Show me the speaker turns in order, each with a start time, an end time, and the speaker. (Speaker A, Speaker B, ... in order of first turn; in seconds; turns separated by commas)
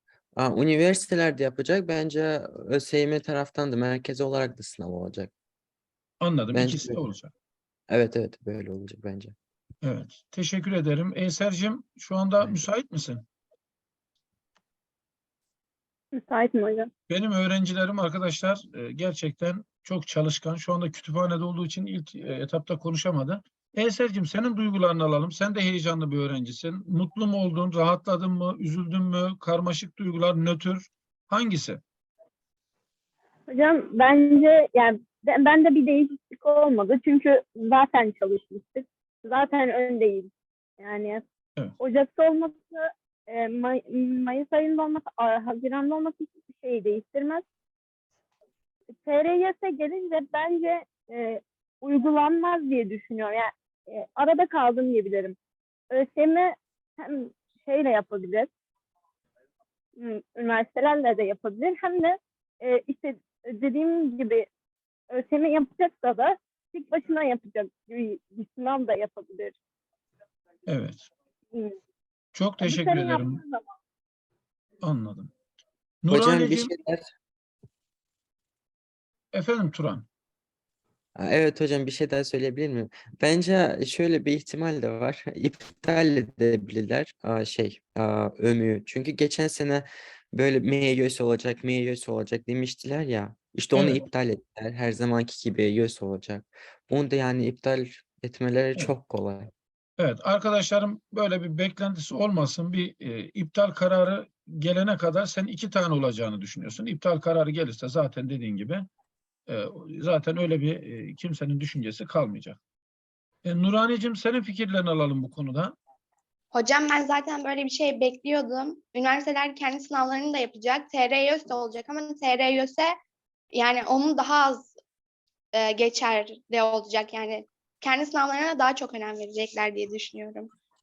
Speaker A: 0.3-5.3, Speaker B: 6.2-7.3, Speaker A: 6.5-7.0, Speaker A: 7.9-9.3, Speaker B: 9.8-13.2, Speaker C: 16.1-16.9, Speaker B: 17.1-31.8, Speaker C: 33.5-41.2, Speaker C: 41.8-47.4, Speaker C: 49.0-55.4, Speaker C: 55.9-58.5, Speaker C: 60.0-64.5, Speaker C: 65.1-69.5, Speaker B: 70.7-71.1, Speaker B: 72.3-73.4, Speaker C: 72.6-73.7, Speaker B: 74.8-75.3, Speaker B: 76.0-76.7, Speaker A: 76.1-77.0, Speaker B: 79.3-80.0, Speaker A: 81.2-99.5, Speaker B: 93.7-94.0, Speaker B: 100.0-108.8, Speaker B: 109.5-112.6, Speaker B: 113.4-115.7, Speaker D: 116.5-122.9, Speaker D: 123.5-124.7, Speaker D: 125.5-130.5